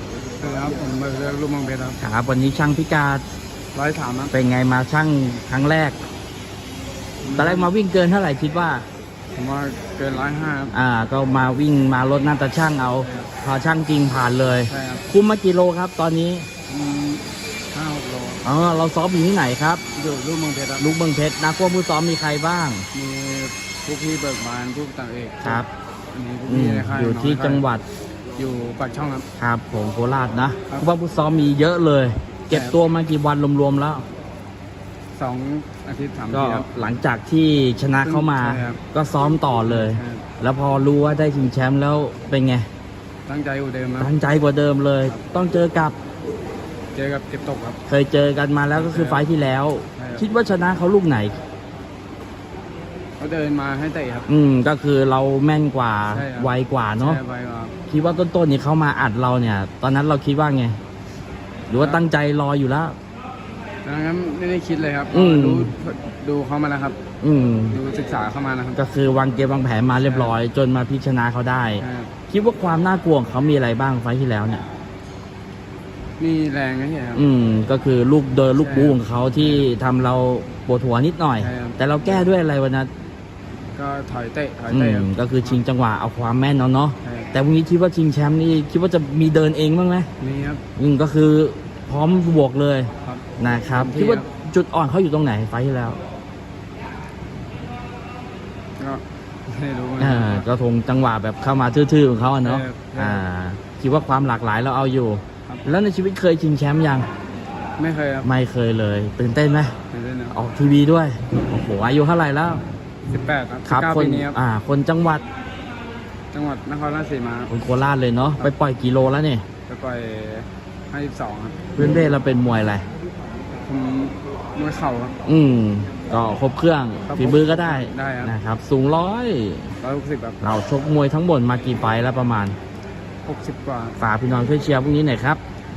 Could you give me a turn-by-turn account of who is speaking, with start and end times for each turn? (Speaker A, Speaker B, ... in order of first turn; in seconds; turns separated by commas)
Speaker A: 0.4-2.0, Speaker B: 2.0-3.2, Speaker A: 3.7-4.3, Speaker B: 4.3-6.0, Speaker A: 7.2-7.7, Speaker B: 7.4-8.8, Speaker A: 9.3-10.7, Speaker B: 10.7-16.5, Speaker A: 13.0-13.3, Speaker A: 14.7-15.0, Speaker A: 16.7-18.4, Speaker B: 18.4-19.8, Speaker A: 19.9-20.9, Speaker B: 20.8-22.9, Speaker A: 22.9-27.6, Speaker B: 25.4-25.7, Speaker B: 26.5-27.8, Speaker A: 28.4-29.2, Speaker B: 29.4-34.0, Speaker A: 32.5-32.8, Speaker A: 35.1-36.7, Speaker B: 36.3-42.7, Speaker A: 38.0-38.8, Speaker A: 39.7-40.2, Speaker A: 43.3-44.1, Speaker B: 44.0-45.9, Speaker A: 46.9-47.8, Speaker B: 47.9-51.4, Speaker A: 48.7-49.3, Speaker A: 50.0-50.3, Speaker A: 53.2-54.3, Speaker B: 54.3-57.2, Speaker A: 56.1-57.7, Speaker B: 57.9-60.8, Speaker B: 61.7-62.9, Speaker A: 61.8-62.0, Speaker A: 63.8-67.0, Speaker B: 65.1-65.7, Speaker B: 67.2-67.8, Speaker A: 67.7-68.8, Speaker B: 68.8-74.6, Speaker A: 70.0-70.4, Speaker A: 71.8-72.1, Speaker A: 76.2-77.2, Speaker B: 77.2-82.9, Speaker A: 78.5-79.7, Speaker A: 81.4-82.3, Speaker A: 83.7-85.6, Speaker B: 84.7-90.1, Speaker A: 87.0-87.3, Speaker A: 90.2-90.6, Speaker B: 90.8-96.0, Speaker A: 93.0-94.2, Speaker A: 98.8-100.5, Speaker B: 100.0-107.1, Speaker A: 102.4-103.2, Speaker A: 107.8-108.3, Speaker B: 108.2-109.8, Speaker A: 109.9-110.4, Speaker B: 110.3-112.6, Speaker A: 113.1-114.4, Speaker B: 113.7-115.2, Speaker A: 116.3-117.5, Speaker B: 117.5-119.4, Speaker A: 119.7-121.6, Speaker B: 121.8-122.8, Speaker A: 123.6-125.2, Speaker B: 125.2-129.7, Speaker A: 127.0-128.3, Speaker A: 129.8-130.4, Speaker B: 130.4-132.6, Speaker A: 133.2-134.0, Speaker B: 134.0-135.4